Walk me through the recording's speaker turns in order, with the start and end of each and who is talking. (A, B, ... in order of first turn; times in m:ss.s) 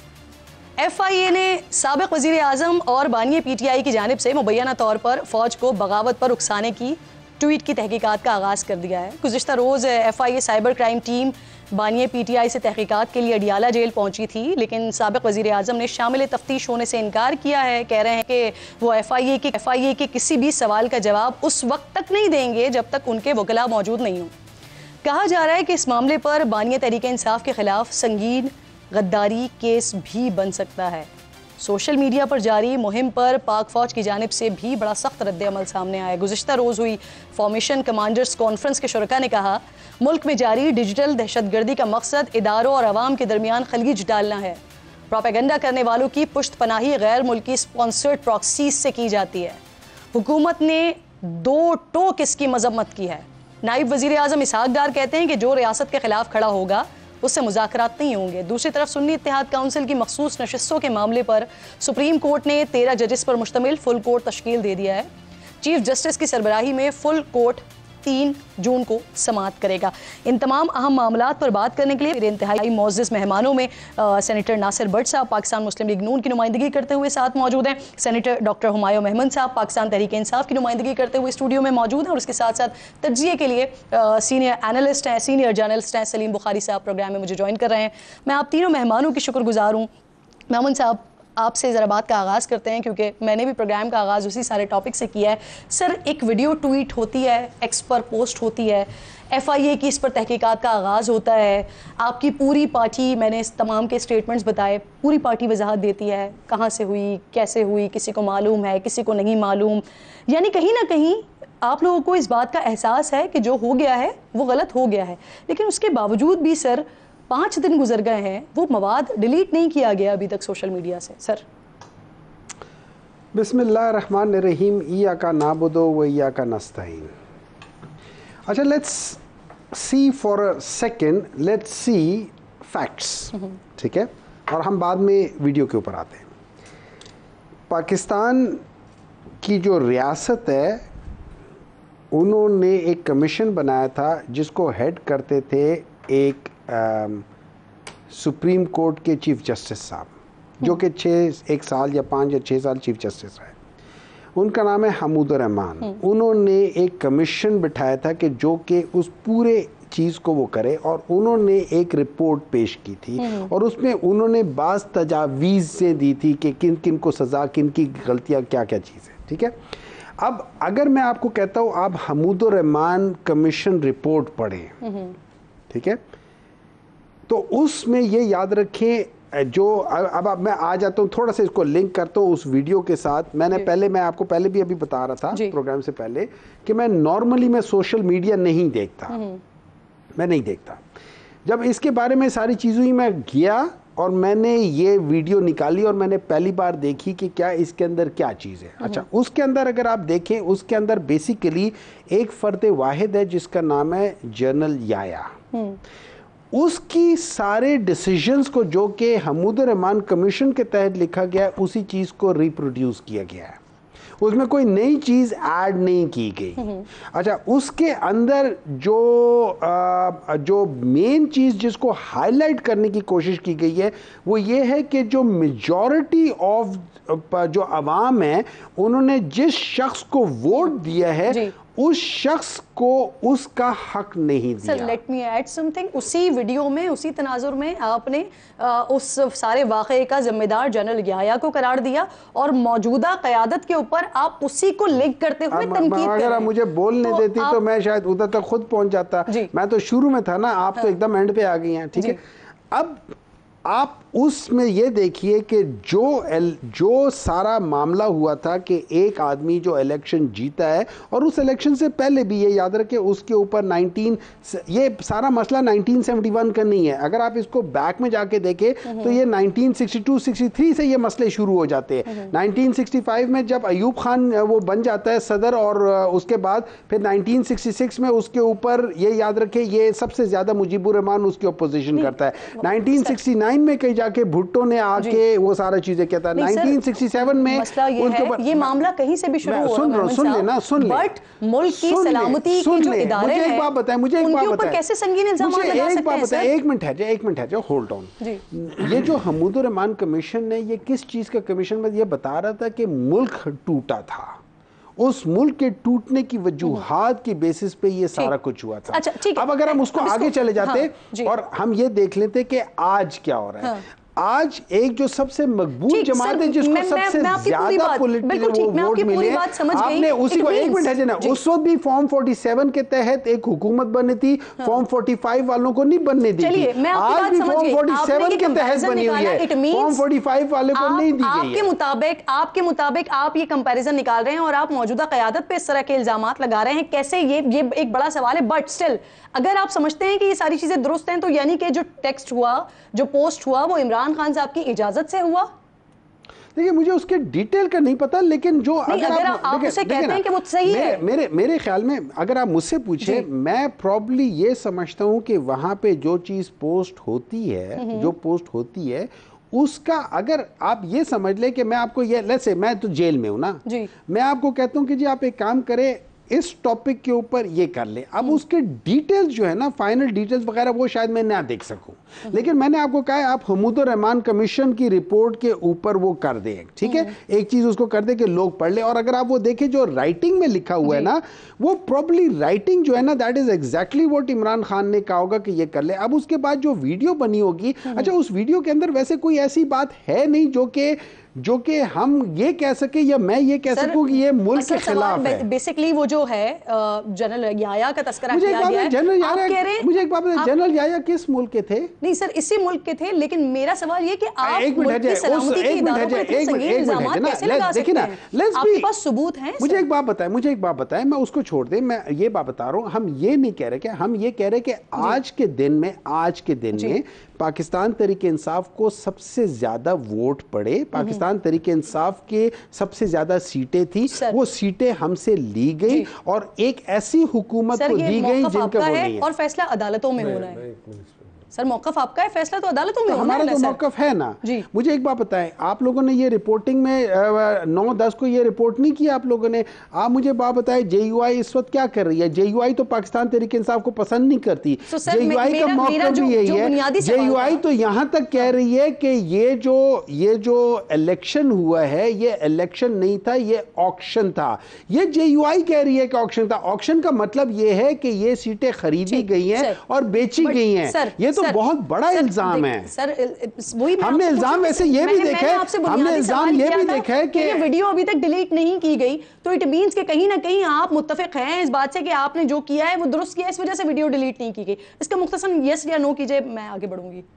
0:00.8-0:24.3 A
0:25.0-0:49.6 A
0:50.1-1:05.1 A
1:05.6-1:29.9 A
1:30.5-2:01.4 A
2:03.3-2:07.1 B
2:08.4-2:09.2 B
2:09.7-2:16.3 B
2:17.7-2:18.6 B
2:19.4-2:20.8 B
2:22.1-2:27.2 B
2:28.1-2:33.6 B
2:34.4-2:49.5 B
2:43.2-2:43.5 A
2:50.2-2:54.8 B
2:54.9-2:55.1 A
2:55.7-2:56.0 B
2:57.3-3:09.2 B
3:09.1-3:09.4 A
3:10.2-3:10.8 B
3:11.4-3:25.3 B
3:25.5-3:25.8 A
3:26.5-3:33.6 B
3:34.2-3:55.0 B
3:36.6-3:36.8 A
3:51.3-3:51.5 A
3:54.6-4:06.5 A
4:05.5-4:12.2 B
4:07.0-4:07.6 A
4:12.7-4:13.1 B
4:13.7-4:48.8 B
4:42.0-4:43.1 A
4:46.3-4:56.5 A
4:49.4-4:51.1 B
4:51.7-4:54.8 B
4:55.4-5:04.4 B
5:05.0-5:31.7 B
5:08.9-5:11.3 A
5:15.9-5:21.4 A
5:26.4-5:30.0 A
5:30.7-5:45.5 A
5:46.5-6:35.5 B
5:48.9-5:51.0 A
5:57.8-5:58.1 A
6:16.8-6:17.1 A
6:20.8-6:21.1 A
6:33.7-6:40.5 A
6:38.3-6:41.9 B
6:42.0-6:49.8 A
6:44.4-6:48.9 B
6:49.6-7:09.3 B
7:04.1-7:04.4 A
7:07.7-7:10.7 A
7:11.5-7:13.8 A
7:13.1-7:42.9 B
7:24.9-7:27.6 A
7:39.1-7:39.8 A
7:40.4-7:57.2 A
7:44.0-7:47.7 B